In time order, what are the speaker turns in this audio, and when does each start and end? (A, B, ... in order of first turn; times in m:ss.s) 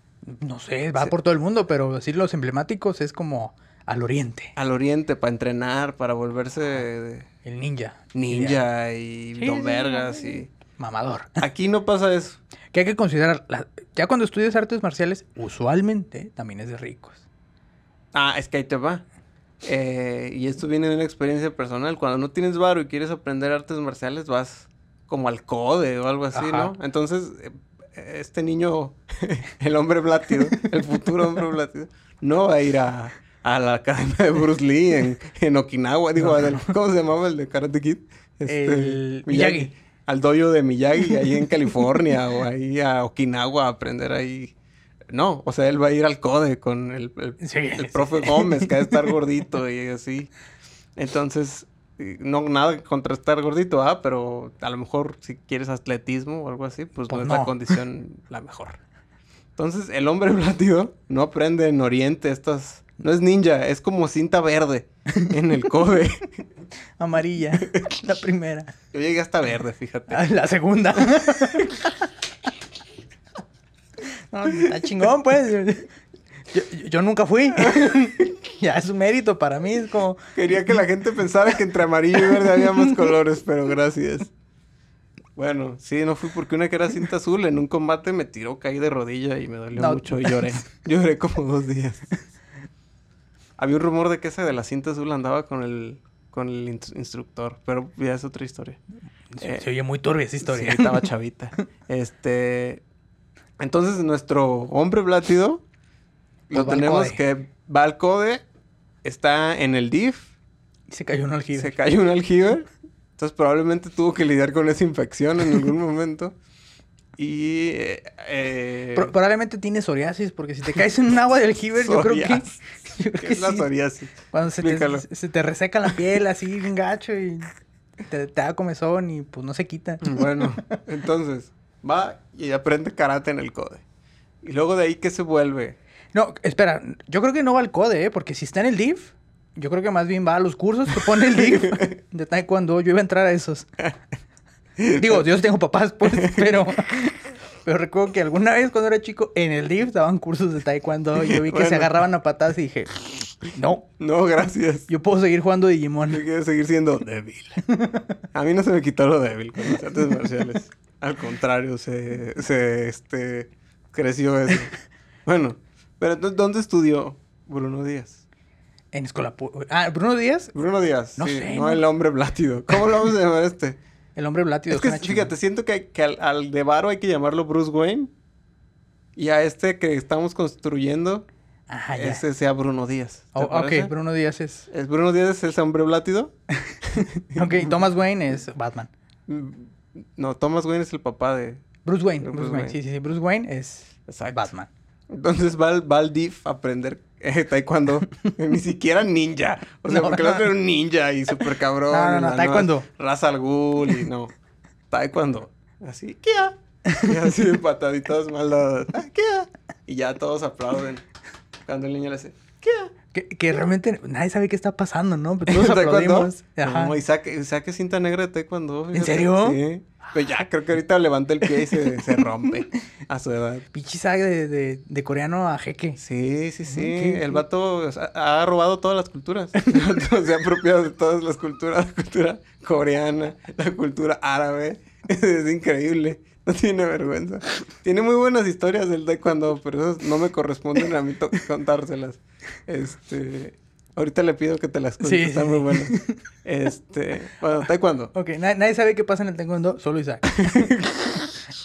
0:00.2-0:04.5 A
0:04.6-0:07.3 B
0:07.4-0:08.6 A
0:08.1-0:10.5 B
0:09.4-0:11.4 A
0:11.4-0:12.4 B
0:12.7-0:17.2 A
0:18.1-0:19.0 B
0:19.6-0:44.5 B
0:26.3-0:26.8 A
0:36.2-0:36.7 A
0:38.5-0:39.7 A
0:45.1-0:50.3 B
0:47.4-0:49.1 A
0:51.0-0:58.8 B
0:57.1-0:57.6 A
0:59.6-1:06.3 B
1:07.0-1:08.7 A
1:08.9-1:10.2 B
1:10.1-1:12.1 A
1:14.3-1:15.9 A
1:16.5-1:20.7 A
1:17.6-1:18.3 B
1:20.4-1:24.3 B
1:22.3-1:22.6 A
1:25.4-1:32.1 B
1:29.8-1:30.6 A
1:33.6-1:38.8 B
1:39.3-1:41.1 A
1:39.4-1:39.7 B
1:40.4-1:42.8 B
1:43.6-1:45.6 B
1:46.5-1:48.4 B
1:46.5-1:47.2 A
1:49.0-1:50.3 B
1:50.9-1:51.8 A
1:51.6-1:56.4 B
1:57.2-1:59.1 B
1:59.0-2:03.7 A
2:01.8-2:02.6 B
2:03.2-2:05.0 B
2:04.3-2:07.5 A
2:08.1-2:10.8 A
2:10.0-2:13.8 B
2:14.4-2:15.8 B
2:16.1-2:23.7 A
2:21.3-2:22.0 B
2:24.8-2:25.2 B
2:24.9-2:33.9 A
2:26.1-2:26.5 B
2:31.2-2:32.0 B
2:34.0-2:34.9 B
2:34.9-2:36.2 A
2:36.1-2:37.6 B
2:37.7-2:38.1 A
2:38.3-2:44.7 B
2:45.3-2:48.2 B
2:48.9-2:50.5 A
2:50.5-2:53.8 B
2:51.2-2:51.8 A
2:54.2-2:55.3 A
2:54.7-2:58.1 B
2:59.2-3:01.3 B
3:01.7-3:02.2 A
3:01.9-3:03.9 B
3:03.4-3:04.7 A
3:04.7-3:06.3 B
3:06.6-3:08.9 A
3:06.8-3:07.7 B
3:09.3-3:11.6 B
3:11.8-3:14.7 A
3:12.2-3:12.8 B
3:14.1-3:14.5 B
3:15.1-3:24.3 B
3:19.9-3:20.5 A
3:21.9-3:22.9 A
3:24.9-3:31.1 B
3:31.7-3:32.9 B
3:33.1-3:37.0 A
3:35.5-3:43.6 B
3:38.9-3:39.6 A
3:43.7-3:46.0 A
3:46.0-4:08.1 B
3:46.7-3:47.4 A
4:05.0-4:06.2 A
4:08.1-4:10.8 A
4:10.4-4:11.1 B